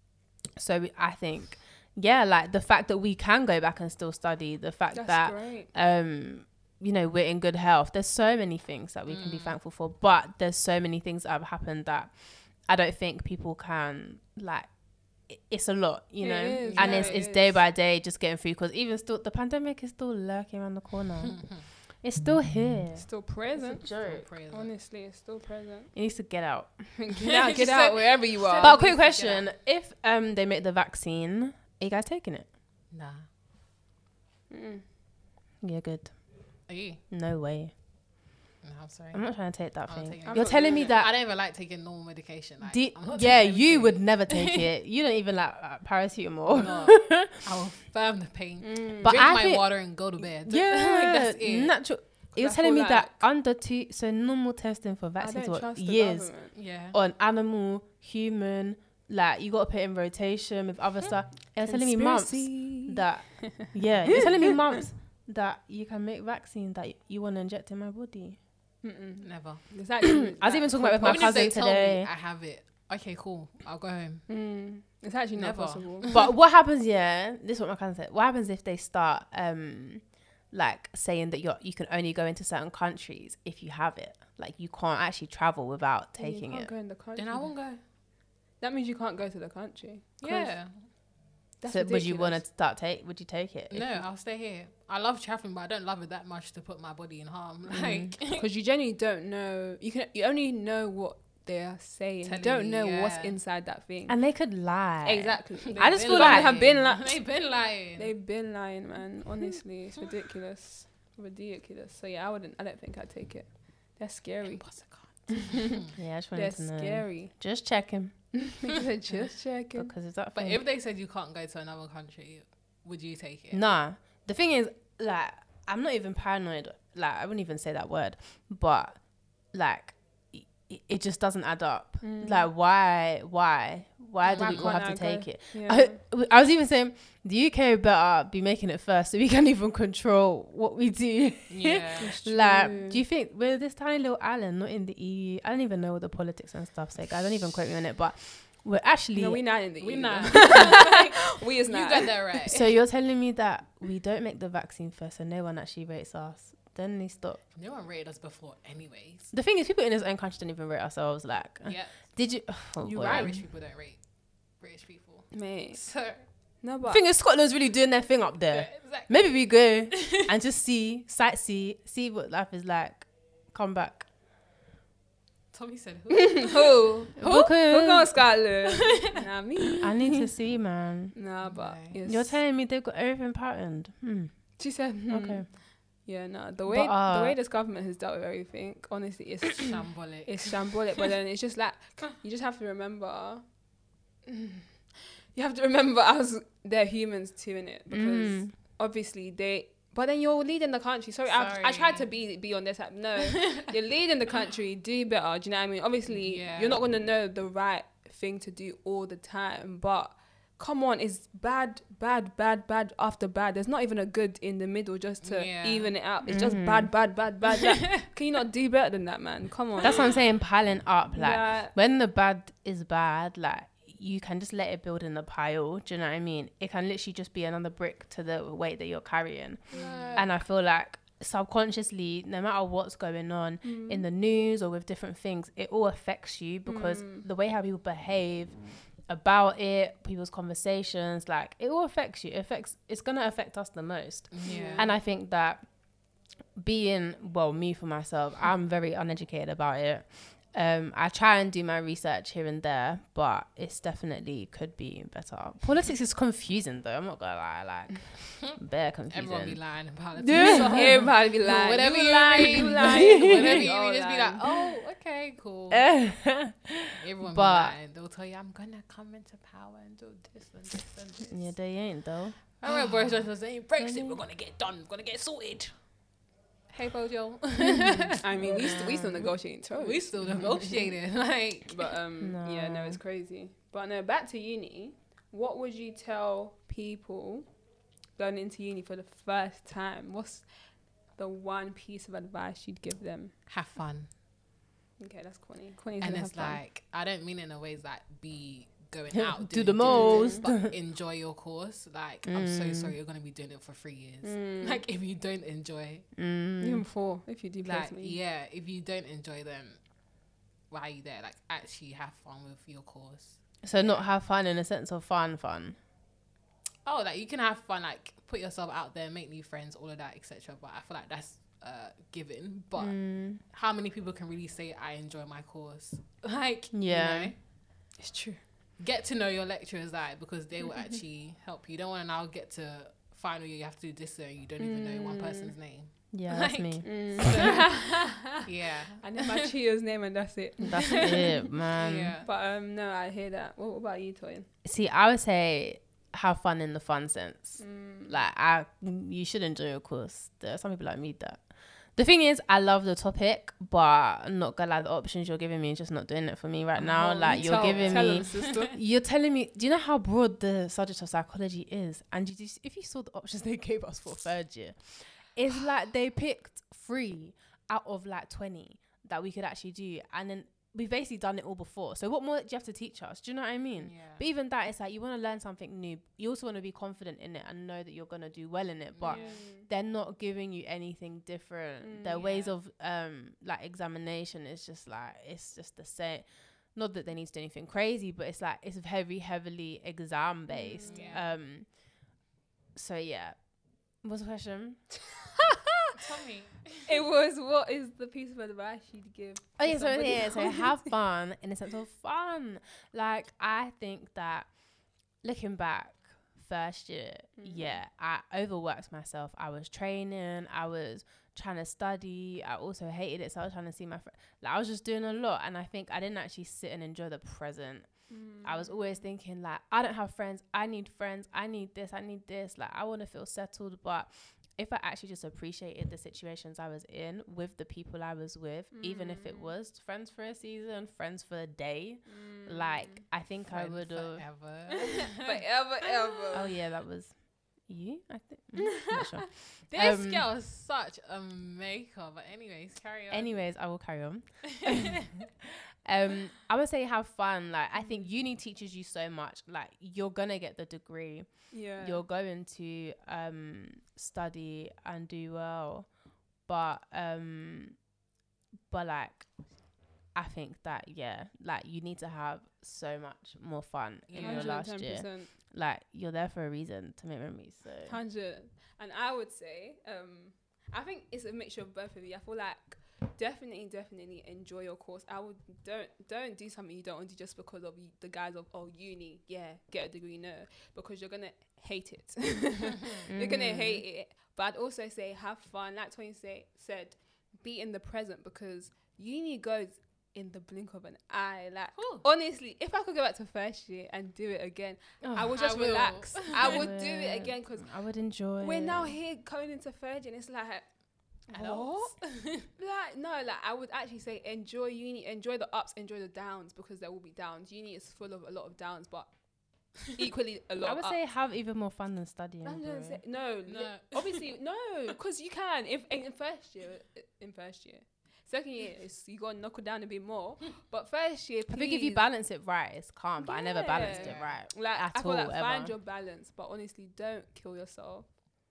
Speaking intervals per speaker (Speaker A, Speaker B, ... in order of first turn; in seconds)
Speaker A: 0.5-14.7, 15.3-24.3, 25.9-26.9, 28.6-32.5, 35.6-36.1, 37.1-37.7, 39.1-41.1, 42.6-47.4, 49.0-68.4, 70.2-72.1, 76.1-86.7, 91.7-94.0, 97.7-98.2, 104.1-106.6, 115.9-118.4, 119.7-120.6, 123.5-149.5, 150.5-150.9, 152.4-157.4, 159.3-163.4, 166.9-174.1, 177.2-178.2, 179.8-181.1, 182.1-184.4, 185.1-185.5, 186.7-187.4, 197.9-198.5, 216.2-216.9, 219.8-245.7, 246.5-259.6, 260.1-261.1, 262.4-263.6, 265.7-267.8, 271.3-273.1, 273.8-274.2, 277.6-279.3, 282.2-283.0, 299.1-300.7, 302.2-302.9, 306.1-306.9, 313.6-315.8, 322.8-323.4, 326.7-327.3, 336.1-337.4, 340.6-342.1, 344.6-391.7, 392.7-393.4, 394.0-394.9, 399.6-404.5, 405.2-434.2, 436.3-437.1, 437.6-440.2, 443.1-455.9, 456.4-457.8, 458.7-459.3, 460.1-468.0, 483.1-483.8, 496.3-498.9, 510.6-513.0, 521.5-525.7
Speaker B: 4.9-5.7, 16.2-17.6, 22.9-23.9, 24.5-25.9, 27.0-28.9, 34.5-34.8, 40.2-41.0, 48.6-49.3, 52.4-53.2, 55.2-56.5, 61.6-64.2, 68.8-71.5, 74.3-76.1, 86.2-87.5, 88.6-90.5, 91.6-92.4, 98.3-104.2, 105.0-107.3, 108.0-114.7, 115.3-117.3, 118.4-119.9, 132.0-132.5, 134.3-136.0, 142.0-143.0, 149.1-152.6, 165.3-165.8, 166.6-167.0, 176.1-180.3, 181.1-182.4, 184.6-193.4, 194.2-194.7, 195.3-220.1, 221.1-221.7, 229.8-230.2, 233.6-234.1, 236.7-237.2, 244.4-244.9, 260.3-264.5, 278.1-280.7, 281.7-287.5, 288.2-290.5, 291.1-293.3, 295.0-296.6, 299.8-300.5, 304.2-304.8, 306.6-308.2, 328.0-328.4, 334.6-335.5, 336.8-338.4, 339.0-341.4, 342.2-344.5, 347.6-348.2, 356.9-358.7, 379.0-379.7, 381.8-382.2, 390.5-391.2, 396.9-400.9, 407.4-407.8, 418.1-419.0, 428.7-429.5, 432.1-433.0, 434.8-436.5, 438.8-439.0, 451.5-452.0, 464.2-465.3, 467.9-497.7, 498.4-500.7, 501.3-501.9, 502.6-509.1, 509.8-511.0, 512.4-522.1, 523.2-528.2
Speaker C: 9.1-9.6, 16.6-17.2, 21.3-21.6, 24.0-24.7, 27.2-29.5, 32.9-33.2, 36.7-37.0, 38.6-44.7, 46.5-51.8, 56.5-57.0, 69.2-69.7, 71.0-74.2, 75.3-76.3, 87.2-87.8, 90.2-90.8, 93.7-98.5, 102.2-103.4, 105.6-108.1, 114.5-115.8, 120.3-123.6, 134.3-134.8, 141.5-142.1, 149.8-152.7, 157.5-159.3, 161.7-162.1, 162.8-164.0, 164.6-166.2, 168.5-169.3, 169.9-170.2, 175.5-177.0, 178.7-179.1, 181.4-182.0, 189.6-190.8, 201.2-202.1, 203.2-203.7, 206.1-206.8, 215.2-215.9, 219.8-220.1, 229.7-230.3, 244.3-244.9, 259.1-265.9, 267.0-271.6, 272.6-275.7, 276.7-278.3, 279.8-281.9, 293.5-294.1, 296.0-306.1, 307.6-309.8, 310.7-314.1, 316.9-327.4, 328.8-339.5, 340.9-342.3, 356.8-358.6, 373.8-374.2, 378.9-379.4, 382.1-382.6, 390.9-391.3, 395.9-397.0, 433.5-436.4, 439.7-443.3, 444.6-445.2, 464.1-464.6, 491.7-492.1, 495.2-496.7, 501.3-502.5, 513.5-514.4, 523.8-524.4